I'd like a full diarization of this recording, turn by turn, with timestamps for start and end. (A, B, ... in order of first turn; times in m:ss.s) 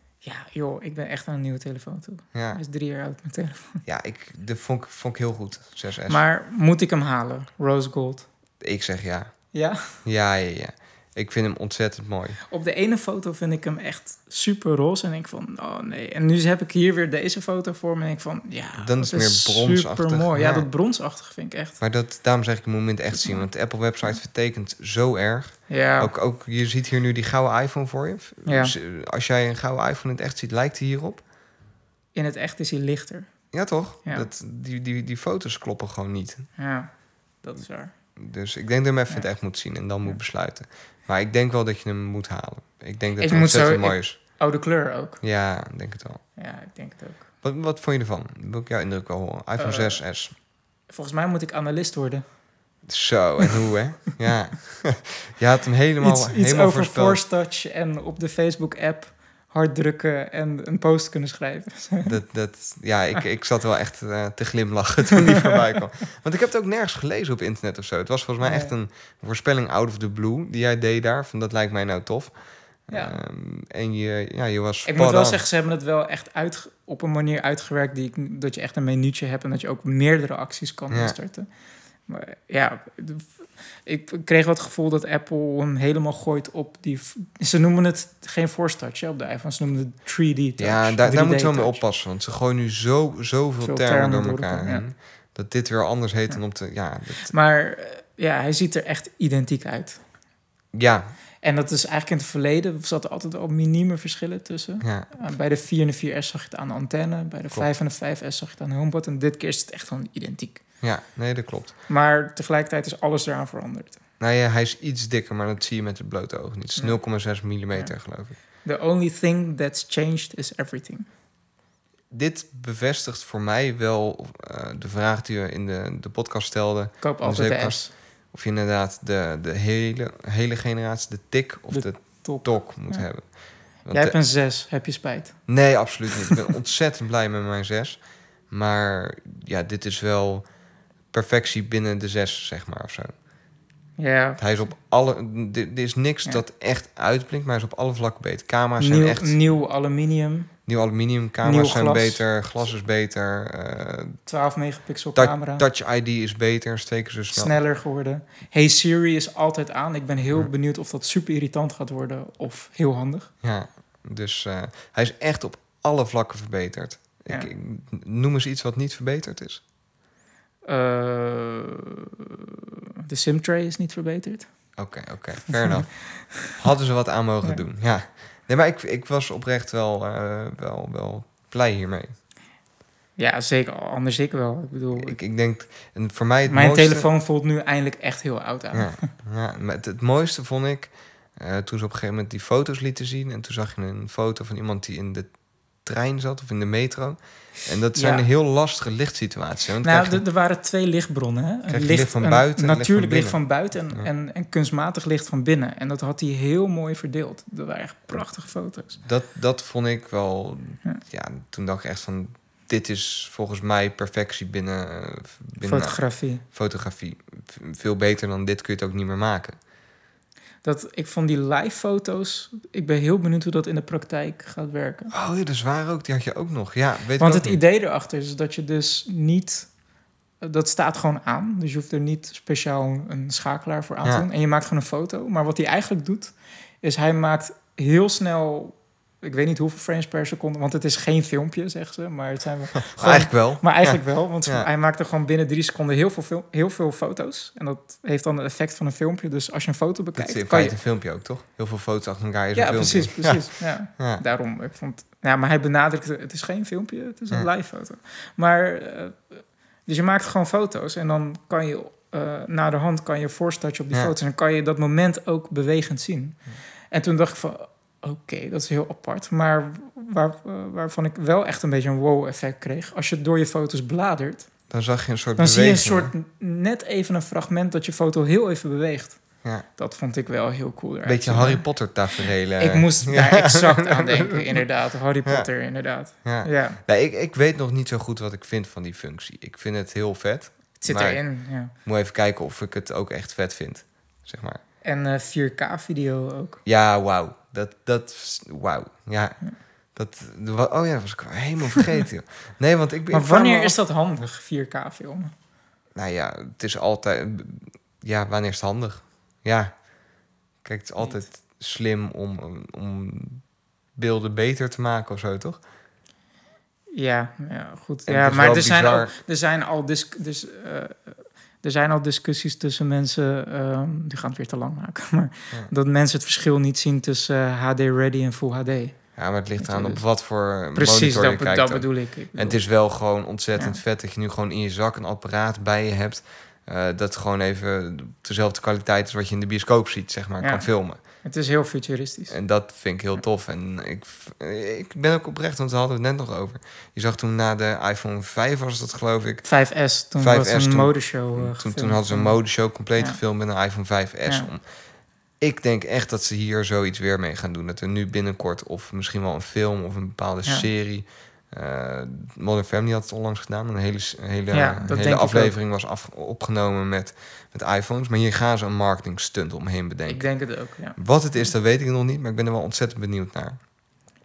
0:00.2-0:03.8 A
0:02.3-0:02.6 B
0:03.8-0:06.2 B
0:06.1-0:08.3 A
0:08.6-0:09.3 B
0:09.5-0:09.8 A
0:10.0-0:12.4 B
0:12.5-0:21.8 A
0:18.8-0:20.7 B
0:21.8-0:31.2 B
0:23.1-0:23.4 A
0:25.7-0:26.1 A
0:28.4-0:28.7 A
0:32.1-0:33.3 A
0:33.5-0:36.5 B
0:36.6-0:36.9 A
0:37.4-0:37.9 A
0:38.2-0:44.2 B
0:43.2-0:45.2 A
0:45.2-0:46.2 B
0:46.4-0:47.2 A
0:47.4-0:50.3 B
0:49.6-0:50.0 A
0:50.9-0:52.2 A
0:52.8-0:57.2 B
0:56.0-1:02.2 A
1:02.0-1:12.3 B
1:08.4-1:08.7 A
1:12.9-1:15.4 B
1:12.9-1:13.2 A
1:14.8-1:21.5 A
1:22.1-1:23.3 A
1:23.8-1:31.8 A
1:30.6-1:37.3 B
1:33.6-1:34.8 A
1:37.3-1:40.0 A
1:40.7-1:41.1 B
1:41.4-1:50.6 A
1:44.8-1:45.1 B
1:50.8-1:51.7 B
1:51.9-1:54.0 A
1:54.2-1:58.4 B
1:58.6-2:01.1 A
2:02.1-2:13.3 B
2:07.0-2:07.9 A
2:11.7-2:13.0 A
2:13.9-2:14.1 B
2:13.9-2:15.4 A
2:15.5-2:20.4 B
2:21.1-2:23.1 B
2:24.0-2:24.4 A
2:24.4-2:29.4 B
2:28.8-2:30.5 A
2:30.7-2:34.2 B
2:31.4-2:32.2 A
2:34.3-2:35.6 A
2:35.2-2:37.5 B
2:37.3-2:43.3 A
2:43.4-2:49.6 B
2:50.6-2:54.5 A
2:54.8-3:02.1 B
3:03.2-3:05.2 A
3:05.0-3:07.1 B
3:06.5-3:09.1 A
3:08.7-3:15.3 B
3:15.8-3:20.2 B
3:17.9-3:18.2 A
3:19.8-3:29.0 A
3:21.7-3:23.4 B
3:29.0-3:39.5 B
3:35.6-3:36.4 A
3:40.6-3:45.1 A
3:45.1-3:47.6 B
3:47.2-3:49.7 A
3:50.4-4:10.8 A
4:02.8-4:04.7 B
4:10.2-4:14.2 B
4:12.6-4:19.2 A
4:19.8-4:26.4 A
4:26.9-4:34.5 A
4:34.7-4:36.1 B
4:35.4-4:39.2 A
4:39.8-4:41.6 A
4:41.0-4:44.6 B
4:42.6-4:46.8 A
4:46.2-4:51.2 B
4:50.8-4:51.7 A
4:51.8-4:54.6 B
4:54.8-4:56.6 A
4:56.6-4:59.4 B
5:00.0-5:03.8 B
5:03.1-5:05.3 A
5:05.9-5:09.7 B
5:10.6-5:13.4 B
5:14.0-5:15.6 B
5:16.9-5:29.0 A
5:18.1-5:19.1 B
5:29.2-5:41.0 B
5:29.6-5:30.0 A
5:30.7-5:32.6 A
5:40.4-5:42.4 A
5:42.3-5:49.4 B
5:49.4-5:52.4 A
5:50.2-5:54.6 B
5:55.4-6:10.3 B
6:04.5-6:05.5 A
6:10.1-6:11.5 A
6:11.0-6:13.6 B